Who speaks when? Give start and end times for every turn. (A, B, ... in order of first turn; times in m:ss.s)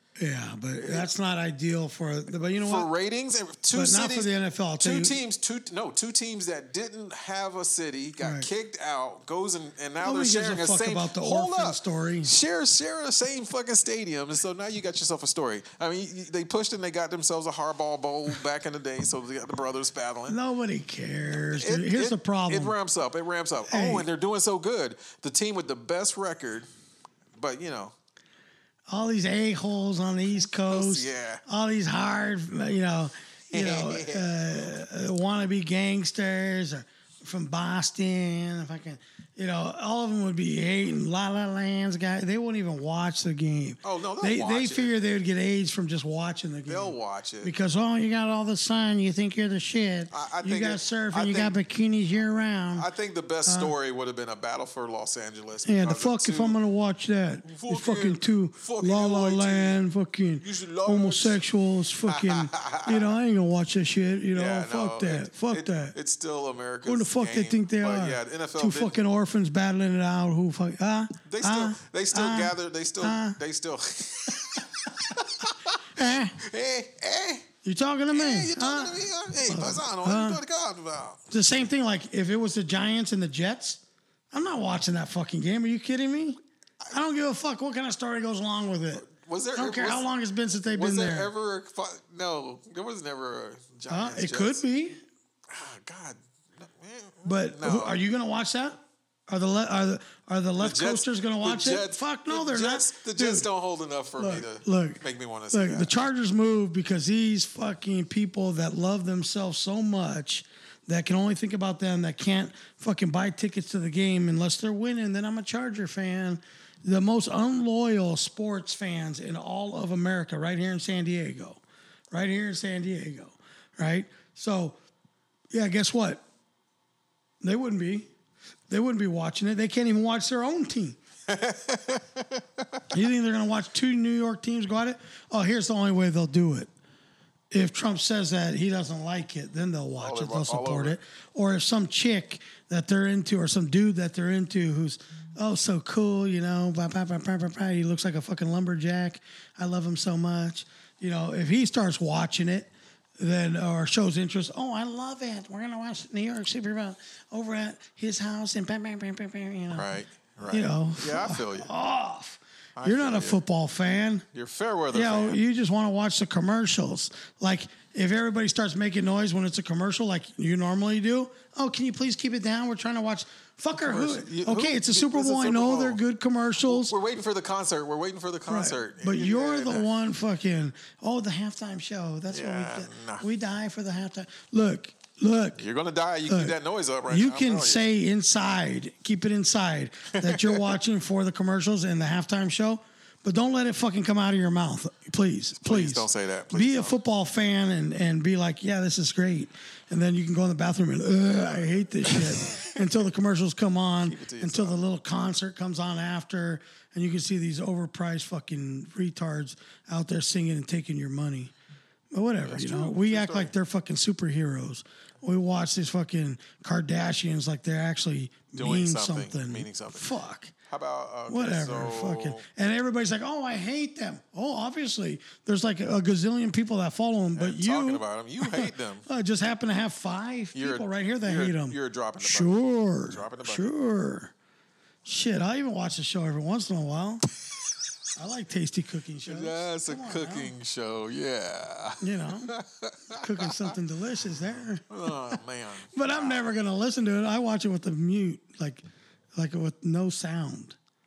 0:00.2-0:02.9 A
0:00.8-0:01.1 B
0:02.5-0:20.4 B
0:03.7-0:05.2 A
0:08.2-0:08.5 A
0:10.0-0:12.3 A
0:20.3-0:22.8 A
0:21.3-0:26.7 B
0:23.7-0:24.1 A
0:27.4-0:27.9 B
0:28.9-0:52.9 A
0:30.4-0:31.4 B
0:33.5-0:34.4 B
0:43.8-0:45.0 B
0:46.7-0:47.5 B
0:50.1-0:51.6 B
0:52.7-0:56.6 B
0:53.4-0:53.7 A
0:55.6-1:06.0 A
0:57.4-0:59.8 B
1:00.4-1:01.4 B
1:02.0-1:03.2 B
1:04.3-1:09.0 B
1:06.8-1:13.4 A
1:11.2-1:17.5 B
1:15.9-1:16.4 A
1:17.6-1:20.4 A
1:18.1-1:21.2 B
1:21.3-1:26.4 A
1:26.9-1:31.3 A
1:28.9-1:30.1 B
1:30.7-1:34.6 B
1:33.9-1:35.0 A
1:35.5-1:38.0 B
1:37.2-1:43.5 A
1:40.6-1:46.1 B
1:44.2-2:01.6 A
2:02.1-2:04.8 A
2:05.5-2:06.2 A
2:07.4-2:08.1 A
2:08.7-2:11.0 A
2:11.3-2:12.9 B
2:12.9-2:16.7 A
2:17.5-2:39.9 A
2:20.0-2:21.0 B
2:39.7-2:41.7 B
2:40.5-2:44.3 A
2:42.8-2:43.4 B
2:44.3-2:45.4 B
2:44.9-2:57.0 A
2:53.8-2:56.0 B
2:56.6-2:59.9 B
2:58.5-3:05.6 A
3:02.3-3:03.3 B
3:05.6-3:07.9 B
3:06.3-3:06.6 A
3:07.1-3:31.5 A
3:10.1-3:10.8 B
3:15.6-3:17.0 B
3:22.0-3:22.7 B
3:24.0-3:24.8 B
3:32.1-3:40.5 A
3:32.4-3:33.6 B
3:38.6-3:40.1 B
3:40.7-3:42.5 B
3:41.3-3:54.3 A
3:47.4-3:49.1 B
3:50.5-3:53.7 B
3:55.0-3:57.3 A
3:58.2-4:00.5 A
3:59.2-4:03.7 B
4:02.0-4:02.5 A
4:03.1-4:04.9 A
4:04.9-4:06.5 B
4:05.9-4:08.8 A
4:09.4-4:10.8 A